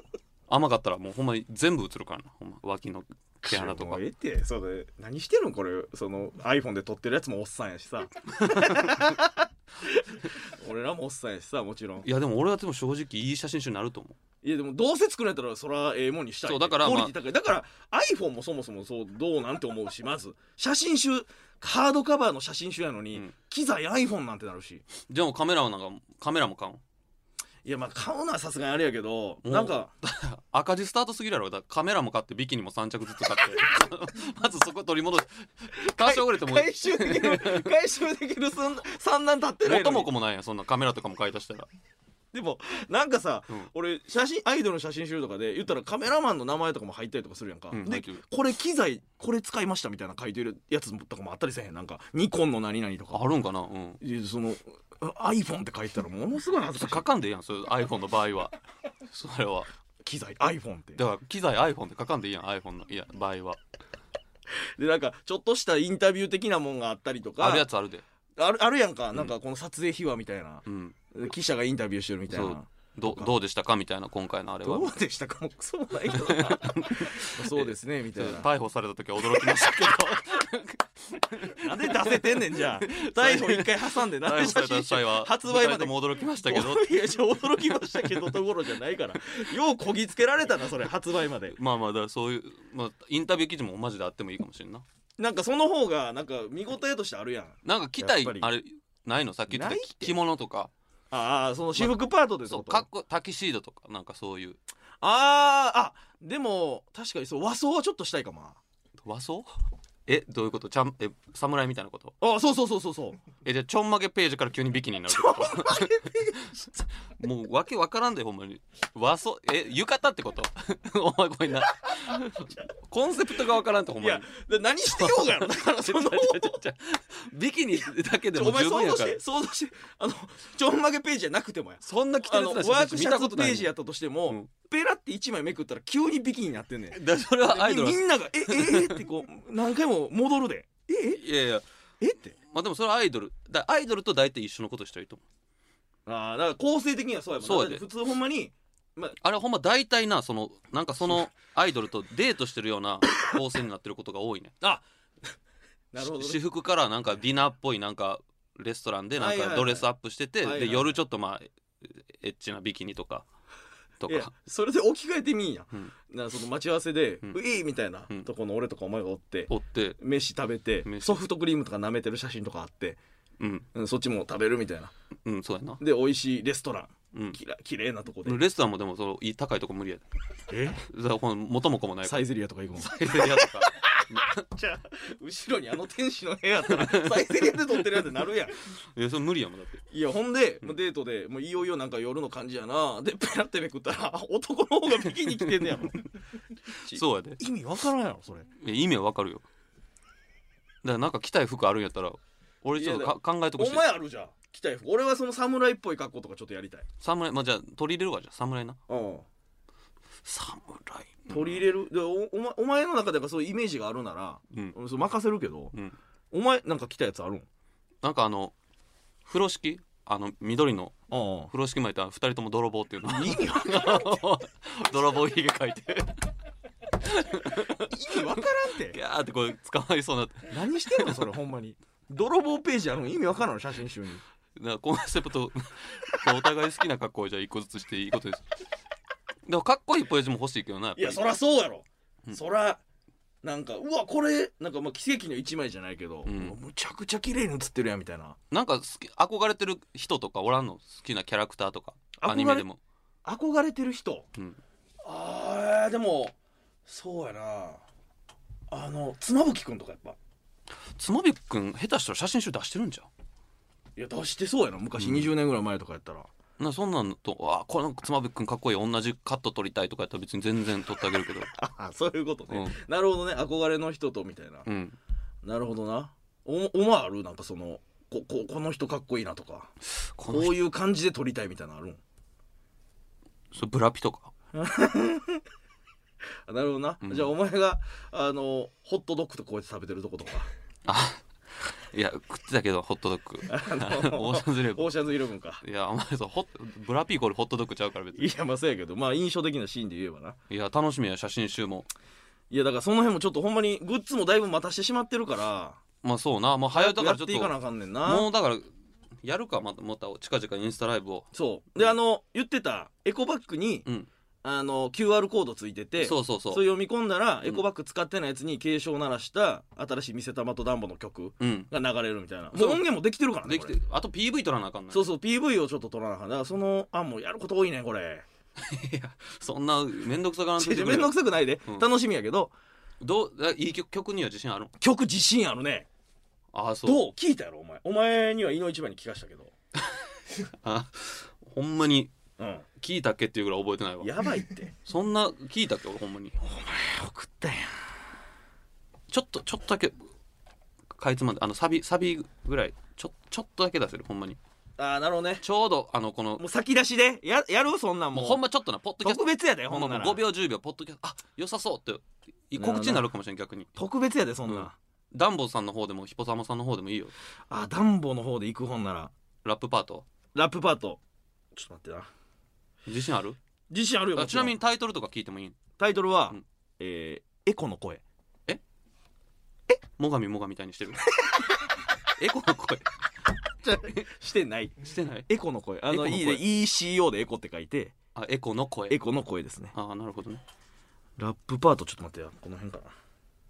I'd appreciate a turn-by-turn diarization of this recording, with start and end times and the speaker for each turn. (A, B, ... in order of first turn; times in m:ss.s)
0:00.5-0:04.0 A
0:03.4-0:12.0 B
0:08.4-0:09.2 A
0:12.0-0:14.2 A
0:14.4-0:24.8 B
0:16.4-0:17.1 A
0:25.0-0:26.8 A
0:27.6-0:29.9 B
0:29.4-0:37.7 A
0:35.7-0:40.1 B
0:39.6-0:41.7 A
0:42.3-0:53.2 B
0:47.7-0:48.2 A
0:53.1-0:54.0 A
0:54.0-0:57.0 B
0:56.8-0:58.5 A
0:59.1-0:59.7 A
1:00.0-1:01.0 B
1:01.0-1:03.6 A
1:04.8-1:07.7 B
1:07.4-1:08.0 A
1:08.4-1:13.3 B
1:10.6-1:11.0 A
1:12.3-1:14.9 A
1:14.6-1:18.5 B
1:16.1-1:26.9 A
1:19.2-1:20.0 B
1:21.4-1:31.6 B
1:27.7-1:28.4 A
1:31.5-1:34.8 A
1:35.2-1:38.5 B
1:37.6-1:40.7 A
1:39.5-1:40.2 B
1:41.1-1:42.8 B
1:41.7-1:44.6 A
1:45.0-1:48.6 B
1:49.0-1:49.5 A
1:50.0-1:52.1 A
1:52.2-1:53.2 B
1:53.4-2:04.3 A
1:55.1-1:56.8 B
2:04.0-2:06.6 B
2:04.8-2:09.2 A
2:08.3-2:21.2 B
2:11.8-2:13.7 A
2:16.9-2:19.0 A
2:21.1-2:21.6 A
2:22.0-2:22.4 B
2:22.4-2:25.2 A
2:26.0-2:29.2 B
2:27.4-2:27.8 A
2:29.2-2:34.5 A
2:35.9-2:36.4 B
2:36.0-2:43.3 A
2:39.2-2:39.9 B
2:40.4-2:41.0 B
2:44.0-2:44.3 A
2:44.1-2:53.0 B
2:49.5-2:50.0 A
2:50.8-2:51.2 A
2:53.4-2:53.7 A
2:53.7-2:54.9 B
2:55.2-2:55.8 A
2:55.8-2:58.4 B
2:57.1-2:57.4 A
2:58.2-3:00.0 A
3:00.5-3:00.8 B
3:00.8-3:02.2 A
3:02.0-3:08.6 B
3:02.7-3:04.4 A
3:06.6-3:08.0 A
3:08.6-3:09.8 A
3:09.9-3:16.0 B
3:15.3-3:16.0 A
3:16.7-3:18.5 B
3:16.9-3:17.4 A
3:18.5-3:19.4 A
3:20.8-3:23.8 A
3:22.8-3:26.8 B
3:27.0-3:28.8 A
3:28.9-3:29.3 B
3:30.3-3:31.6 A
3:30.7-3:35.7 B
3:36.3-3:37.5 B
3:38.0-3:38.5 A
3:39.2-3:40.9 A
3:41.1-3:41.5 B
3:41.5-3:46.3 A
3:43.1-3:44.2 B
3:47.0-3:51.2 A
3:47.5-3:49.0 B
3:50.5-3:54.2 B
3:54.6-3:58.6 A
3:59.4-4:01.2 A
4:01.0-4:02.8 B
4:03.4-4:08.4 B
4:06.2-4:06.6 A
4:08.5-4:12.8 A
4:12.2-4:12.7 B
4:13.2-4:14.3 B
4:15.0-4:17.8 B
4:18.7-4:20.2 B
4:20.9-4:23.1 A
4:24.0-4:26.3 B
4:25.0-4:25.3 A
4:26.6-4:31.5 A
4:31.5-4:34.6 B
4:32.5-4:32.8 A
4:34.6-4:35.0 A
4:35.4-4:39.7 B
4:40.2-4:40.5 A
4:40.2-4:42.0 B
4:43.5-4:44.3 A
4:44.5-4:45.4 B
4:46.5-4:50.5 B
4:47.0-4:47.3 A
4:50.8-4:54.9 A
4:53.5-4:55.6 B
4:55.6-4:58.3 A
4:58.2-5:00.4 B
5:00.5-5:01.9 A
5:02.5-5:05.8 B
5:06.0-5:07.5 A
5:06.7-5:08.3 B
5:08.0-5:08.7 A
5:09.2-5:11.3 A
5:11.3-5:13.8 B
5:14.4-5:23.8 B
5:16.0-5:16.6 A
5:21.4-5:21.7 A
5:22.5-5:22.8 A
5:23.4-5:25.0 A
5:24.9-5:28.2 B
5:28.6-5:31.9 A
5:30.6-5:32.5 B
5:33.0-5:34.7 A
5:34.8-5:35.9 B
5:36.5-5:37.0 A
5:36.8-5:39.5 B
5:39.9-5:42.1 A
5:42.4-5:42.6 B
5:42.8-5:44.1 A
5:44.0-5:44.7 B
5:44.8-5:46.4 A
5:46.4-5:47.7 B
5:49.1-5:50.0 A
5:50.9-5:54.4 A
5:54.8-5:55.4 B
5:55.4-5:56.4 A
5:56.4-5:58.4 B
5:58.1-6:03.7 A
5:59.0-6:00.2 B
6:02.6-6:03.1 B
6:03.7-6:04.8 B
6:04.5-6:07.1 A
6:07.5-6:09.1 B
6:09.4-6:10.1 A
6:10.3-6:11.0 B
6:11.5-6:12.1 B
6:12.8-6:13.4 A
6:13.7-6:14.6 B
6:14.1-6:15.6 A
6:15.8-6:18.0 B
6:20.0-6:21.1 A
6:22.2-6:22.9 A
6:23.6-6:27.9 B
6:24.8-6:25.3 A
6:25.9-6:26.4 A
6:28.1-6:29.0 A
6:28.9-6:29.7 B
6:29.7-6:30.4 A
6:31.2-6:32.9 B